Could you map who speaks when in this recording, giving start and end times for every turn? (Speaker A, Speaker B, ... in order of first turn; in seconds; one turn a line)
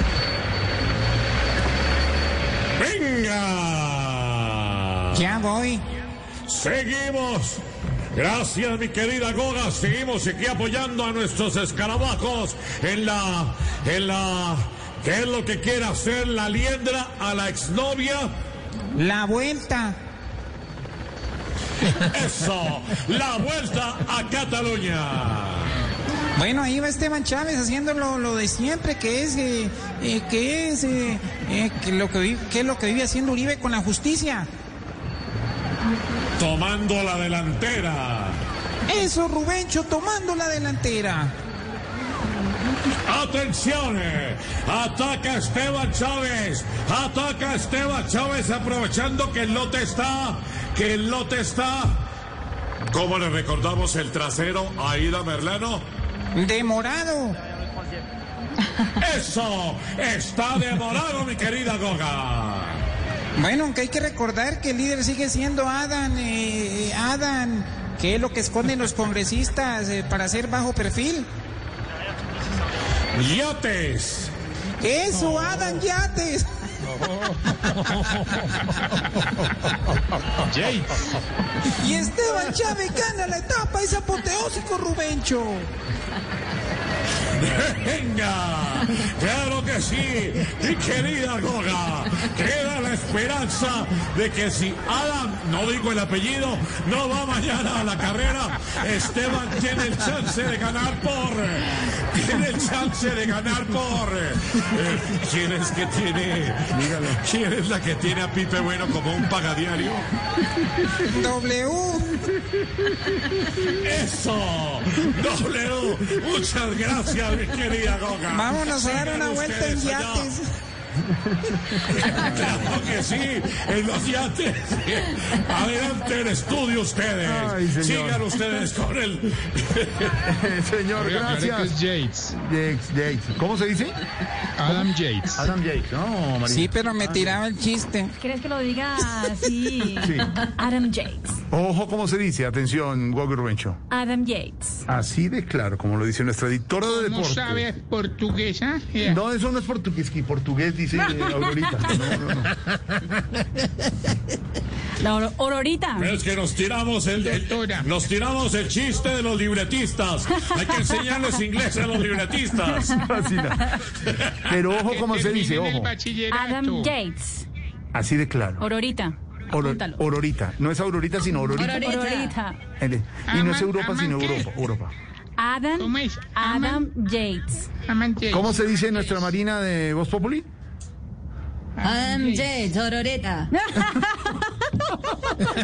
Speaker A: 2.8-5.2
Speaker B: 5.1-5.8
Speaker A: 6.5-7.6
Speaker A: 8.1-18.3
Speaker B: 18.9-20.0
Speaker A: 21.9-25.8
Speaker B: 26.4-34.5
Speaker A: 36.4-38.4
Speaker B: 38.9-41.3
Speaker A: 43.0-52.0
Speaker A: 52.9-55.9
Speaker B: 56.4-57.4
Speaker A: 59.0-62.9
Speaker B: 63.4-71.3
Speaker A: 73.2-74.3
Speaker B: 74.8-76.5
Speaker B: 78.0-78.2
Speaker C: 80.4-81.1
Speaker B: 81.7-85.7
Speaker A: 87.3-110.1
Speaker D: 106.7-107.2
Speaker B: 111.1-112.2
Speaker A: 113.6-120.3
Speaker B: 118.3-120.5
Speaker D: 121.2-121.8
Speaker A: 121.9-130.2
Speaker D: 127.2-128.3
Speaker D: 130.2-131.8
Speaker C: 131.0-132.3
Speaker D: 132.3-134.0
Speaker C: 134.6-135.4
Speaker D: 134.7-137.4
Speaker B: 136.5-138.1
Speaker E: 138.2-141.4
Speaker D: 140.0-140.3
Speaker D: 141.5-143.8
Speaker E: 143.9-144.8
Speaker D: 144.9-147.6
Speaker C: 146.9-149.2
Speaker D: 149.1-152.5
Speaker E: 151.1-152.1
Speaker E: 155.0-156.2
Speaker A: 156.0-162.9
Speaker C: 157.2-157.9
Speaker D: 162.9-165.9
Speaker E: 162.9-163.3
Speaker A: 164.3-164.6
Speaker C: 164.8-166.9
Speaker E: 166.3-167.5
Speaker D: 167.9-168.7
Speaker E: 168.6-170.0
Speaker D: 169.5-171.9
Speaker F: 171.6-172.4
Speaker E: 171.7-172.6
Speaker D: 172.8-174.9
Speaker C: 173.3-174.5
Speaker E: 175.4-177.7
Speaker C: 175.8-176.9
Speaker C: 177.8-178.5
Speaker D: 178.3-180.5
Speaker C: 181.8-182.6
Speaker F: 181.8-183.5